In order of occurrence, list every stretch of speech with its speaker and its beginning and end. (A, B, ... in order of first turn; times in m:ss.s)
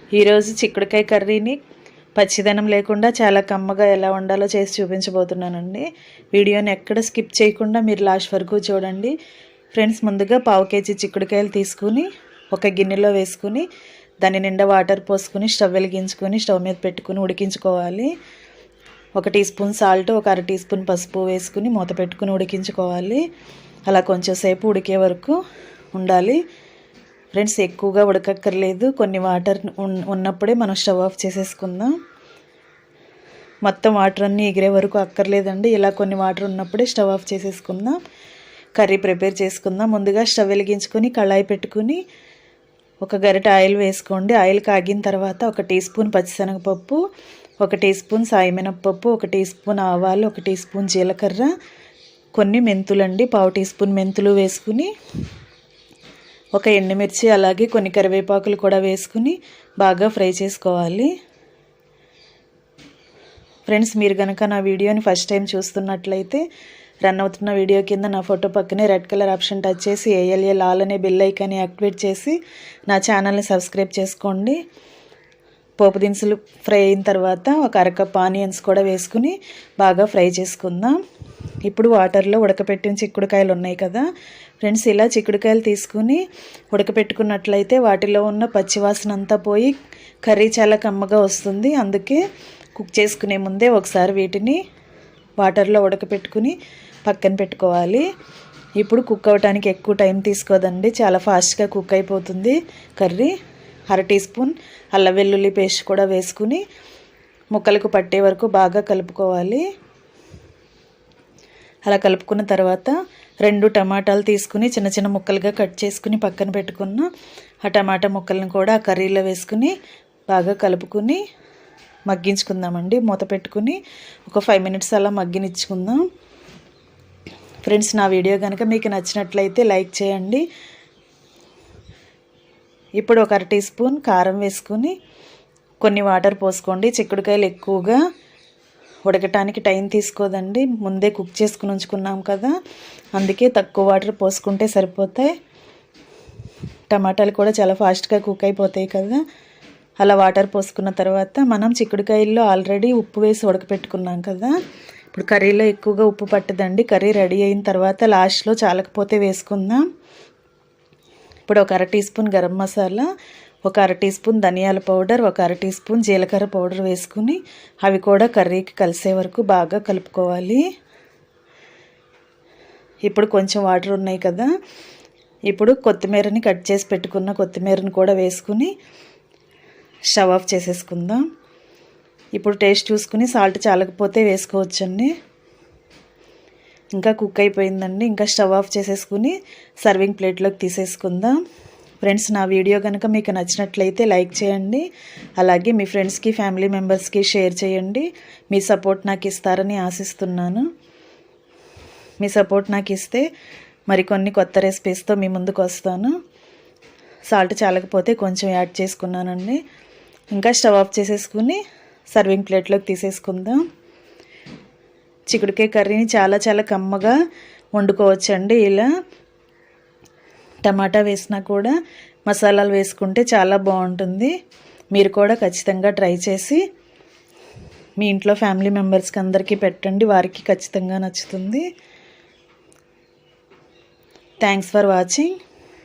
0:00.2-0:01.6 A
0:02.2-0:09.2 A
0:09.7-0:13.7 A
0:14.2-0:18.1 A
0:19.2-0:23.2 A
0:23.9-0:25.4 A
0:25.9-0:26.4 A
0:27.4-0:31.9 A
0:33.7-0:38.0 A
0:38.8-0:42.0 A
0:43.0-0:47.0 A
0:47.6-0:51.5 A
0:52.4-0:54.9 A
0:56.6-1:01.1 A
1:03.7-1:06.4 A
1:07.0-1:12.4 A
1:12.9-1:14.6 A
1:15.8-1:21.0 A
1:21.6-1:24.1 A
1:24.6-1:29.7 A
1:30.3-1:32.2 A
1:32.8-1:34.6 A
1:35.4-1:38.0 A
1:38.8-1:43.3 A
1:43.9-1:46.6 A
1:47.5-1:49.6 A
1:51.9-1:57.1 A
1:57.6-1:59.7 A
2:00.3-2:01.2 A
2:02.1-2:06.0 A
2:07.6-2:10.4 A
2:13.0-2:15.0 A
2:15.8-2:18.0 A
2:19.1-2:22.5 A
2:23.2-2:25.3 A
2:26.9-2:29.2 A
2:30.0-2:34.6 A
2:35.1-2:39.8 A
2:41.5-2:43.1 A
2:43.7-2:50.6 A
2:53.0-2:54.5 A
2:55.5-2:58.7 A
3:00.1-3:01.2 A
3:02.4-3:05.1 A
3:07.0-3:11.4 A
3:12.0-3:14.8 A
3:15.4-3:20.7 A
3:22.2-3:23.3 A
3:23.9-3:26.1 A
3:27.3-3:29.6 A
3:30.4-3:31.6 A
3:32.1-3:33.6 A
3:35.3-3:37.2 A
3:37.8-3:38.9 A
3:40.6-3:41.7 A
3:42.3-3:44.3 A
3:44.9-3:46.6 A
3:48.0-3:51.6 A
3:54.4-3:55.3 A